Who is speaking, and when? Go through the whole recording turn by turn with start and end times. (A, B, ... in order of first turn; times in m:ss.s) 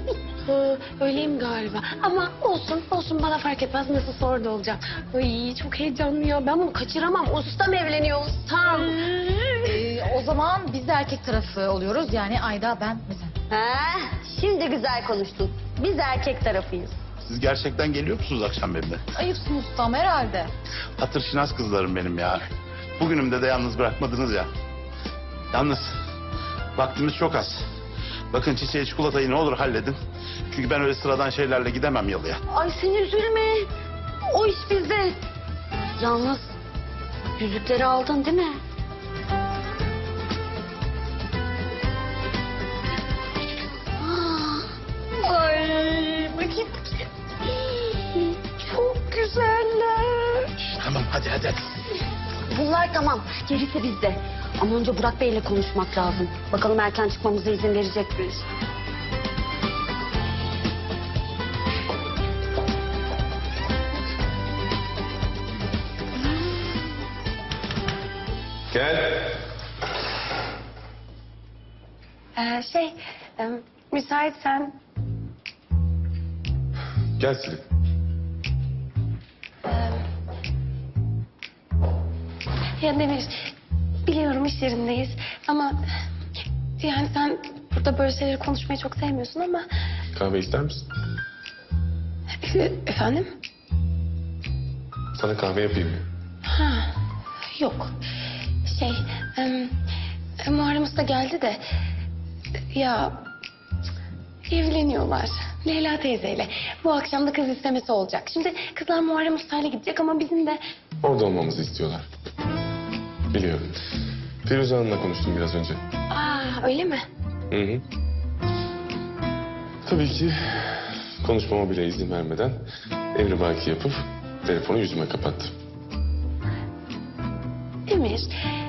0:00.4-0:07.5 A
0:06.8-0:08.8 B
0:08.4-0:08.8 A
0:09.6-0:13.3 C
0:13.5-0:17.0 B
0:17.2-0:19.0 D
0:19.1-0:20.5 C
0:21.0-0:22.5 D
0:23.0-0:24.5 D
0:25.5-0:25.9 D
0:26.8-0:27.6 D
0:28.3-0:30.0 D
0:30.5-0:32.4 D
0:32.6-0:33.7 B
0:34.4-0:34.8 B
0:36.0-0:36.5 B
0:37.4-0:38.6 B
0:44.0-0:44.7 B
0:45.7-0:46.3 A
0:48.6-0:50.4 A
0:50.6-0:51.6 D
0:52.5-0:58.4 B
1:08.7-1:09.3 E
1:12.4-1:14.8 A
1:17.2-1:17.6 E
1:19.6-1:20.0 A
1:22.8-1:23.4 A
1:24.1-1:25.8 A
1:26.8-1:29.6 A
1:30.1-1:30.9 E
1:32.4-1:33.3 A
1:35.1-1:36.0 E
1:36.5-1:36.9 A
1:37.5-1:37.9 A
1:38.6-1:39.7 A
1:40.4-1:41.6 A
1:42.7-1:43.2 A
1:44.5-1:50.6 A
1:51.0-1:52.1 E
1:53.3-1:53.7 E
1:54.4-1:55.8 E
1:56.1-1:57.0 A
1:57.5-1:57.8 E
1:59.8-2:05.5 E
2:07.9-2:08.3 A